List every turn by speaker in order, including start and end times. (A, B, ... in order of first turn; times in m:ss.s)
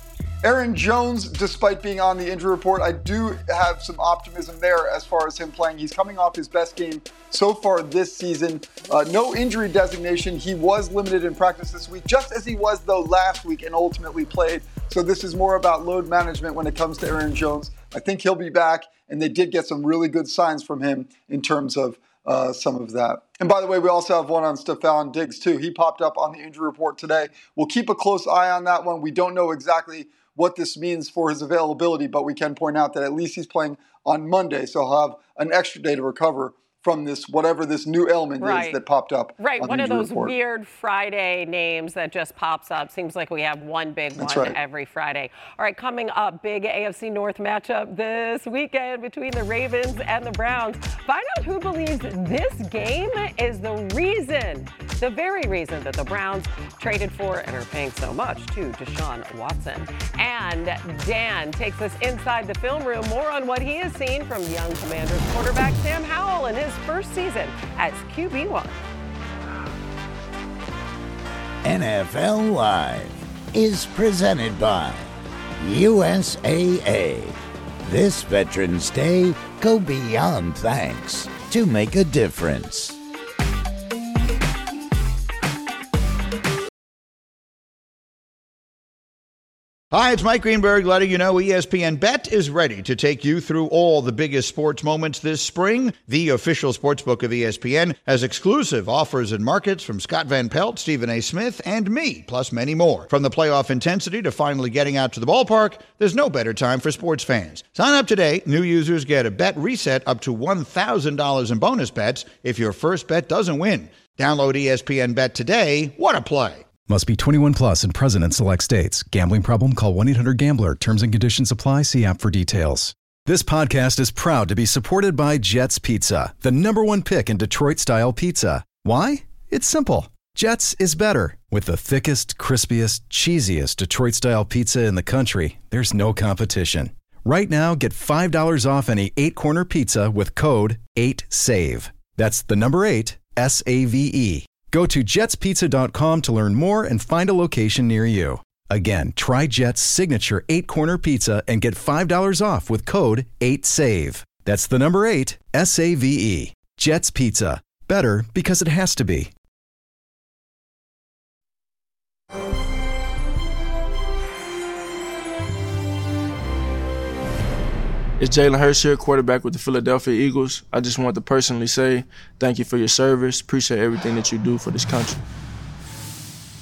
0:00.4-0:40.3 A
0:38.4-0:38.8 B
0:39.4-1:08.8 B
0:44.2-0:44.6 A
1:11.6-1:23.0 C
1:29.9-1:56.7 D
1:56.9-2:39.3 E
2:48.2-2:55.2 F